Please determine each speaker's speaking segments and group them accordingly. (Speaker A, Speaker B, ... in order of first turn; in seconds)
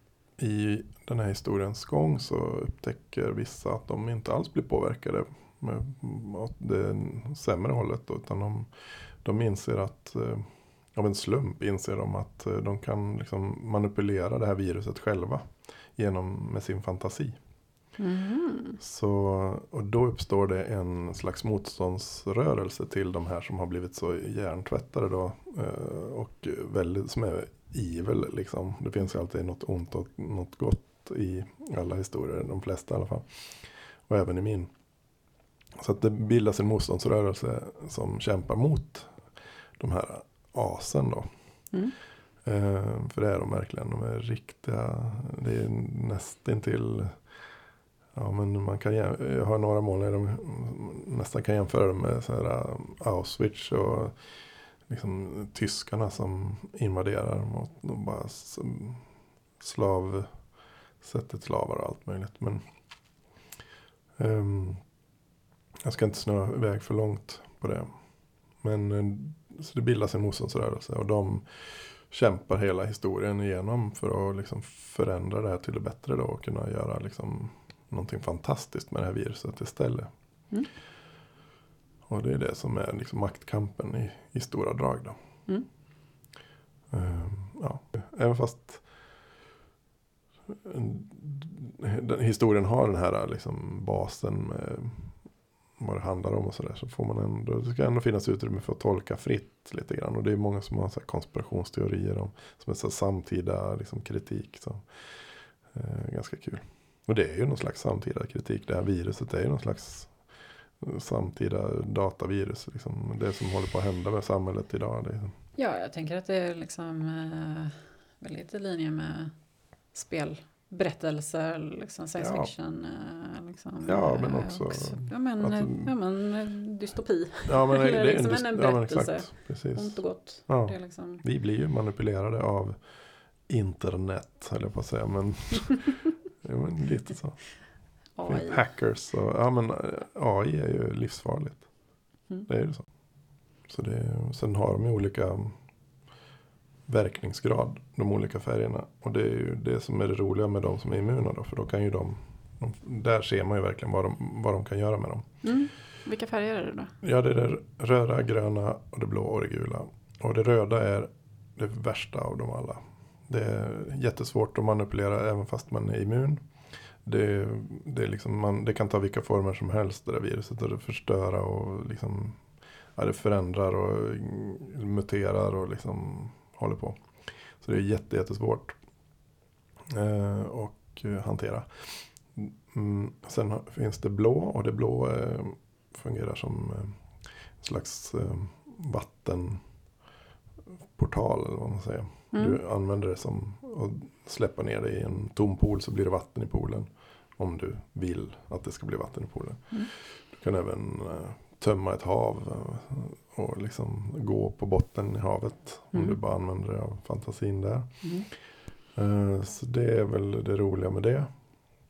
Speaker A: 0.4-17.4, 18.8-34.7, 35.8-41.3, 42.4-47.2, 48.1-54.2, 54.9-59.0, 59.6-60.4, 61.0-62.6, 64.2-64.8, 65.8-80.1, 82.0-85.2, 86.9-88.9, 90.5-95.2, 95.8-105.2, 105.7-110.2, 110.8-115.3, 122.2-122.5, 123.8-125.9, 127.5-132.9, 133.4-137.4, 138.2-141.7, 142.4-142.8, 143.7-145.6, 146.8-155.4, 157.0-166.4, 167.0-178.8, 179.9-189.6, 190.9-208.3, 208.9-211.3
Speaker B: 18.0-18.8, 115.6-119.3, 119.9-131.2, 138.2-138.6, 155.4-156.9, 192.3-192.6, 205.9-206.2